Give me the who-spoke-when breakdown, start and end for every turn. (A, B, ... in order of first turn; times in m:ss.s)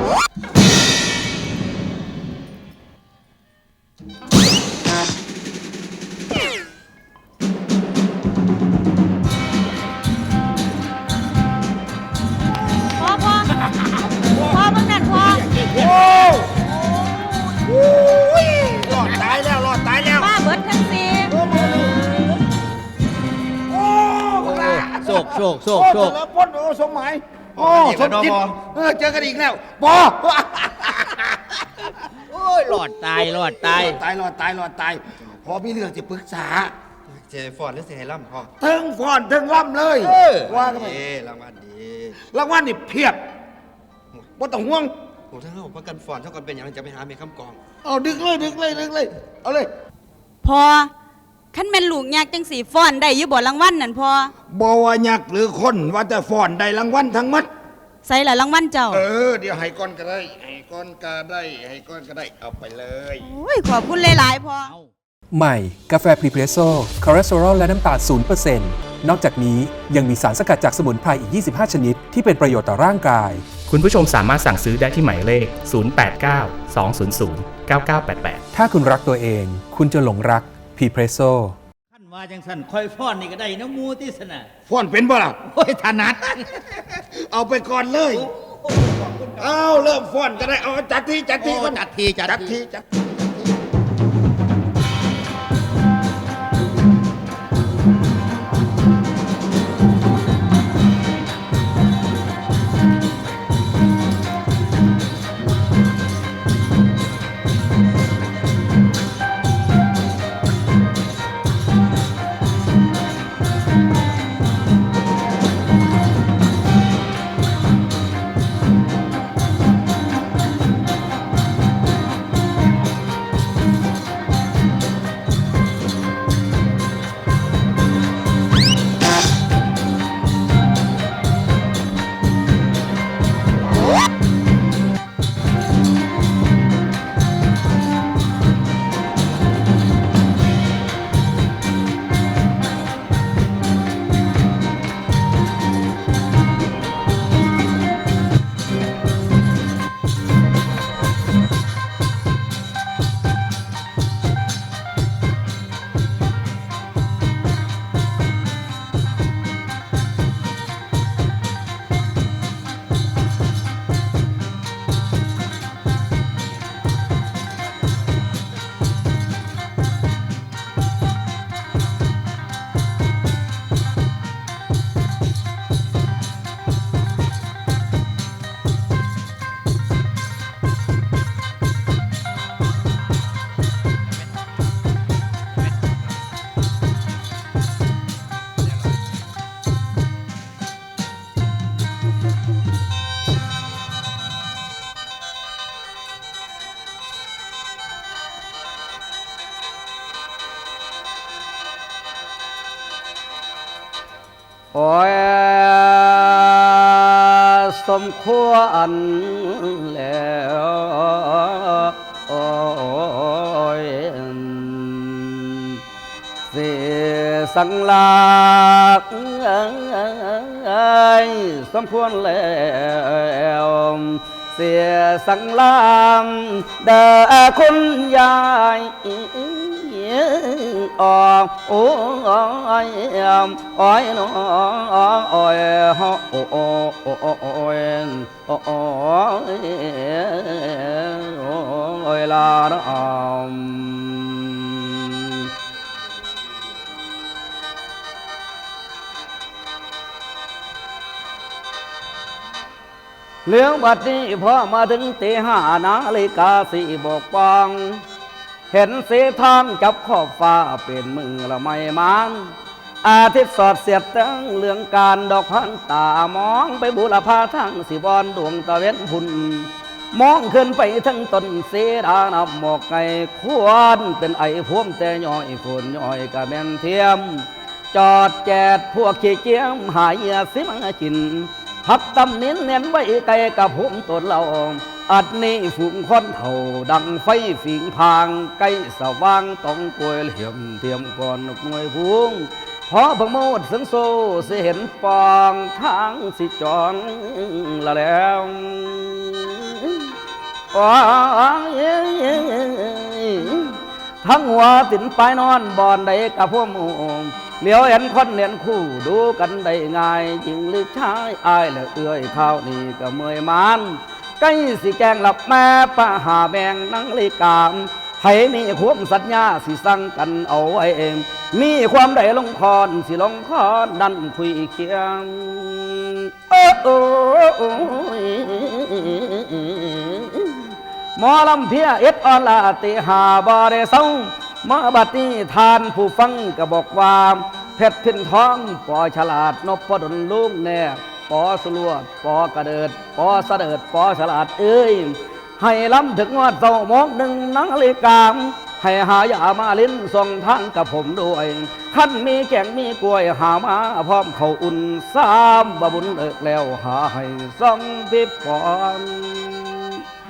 0:12.9-0:13.6 A
0:14.2-0:15.5 A
0:15.5-0:20.3 B
0:20.2-0:21.4 A
0:21.3-0:22.3 B
0:23.7-0:31.9 B
0:24.4-0:26.1 C
0:27.6-0:28.6 D
0:32.3-0:34.0 C
0:33.2-0:36.7 B
0:37.1-0:38.5 D
0:38.6-0:41.0 B
0:40.0-0:40.4 C
0:40.2-0:42.2 D
0:42.2-0:43.2 B
0:44.3-0:44.9 B
0:45.3-0:47.6 D
0:47.8-0:49.7 B
0:50.4-0:50.9 A
0:51.5-0:54.3 A
0:54.5-0:57.5 B
0:58.0-0:59.0 A
0:58.9-1:03.3 B
1:03.2-1:04.7 A
1:05.3-1:13.5 E
1:13.7-1:18.4 F
1:18.5-1:21.6 E
1:22.0-1:24.5 C
1:24.7-1:25.6 B
1:25.6-1:26.4 C
1:26.9-1:28.3 B
1:29.4-1:33.2 B
1:31.4-1:32.4 C
3:24.7-3:35.8 G
3:36.5-4:05.5 G
4:13.5-4:18.0 G
4:18.7-5:00.1 G
5:00.7-6:00.0 G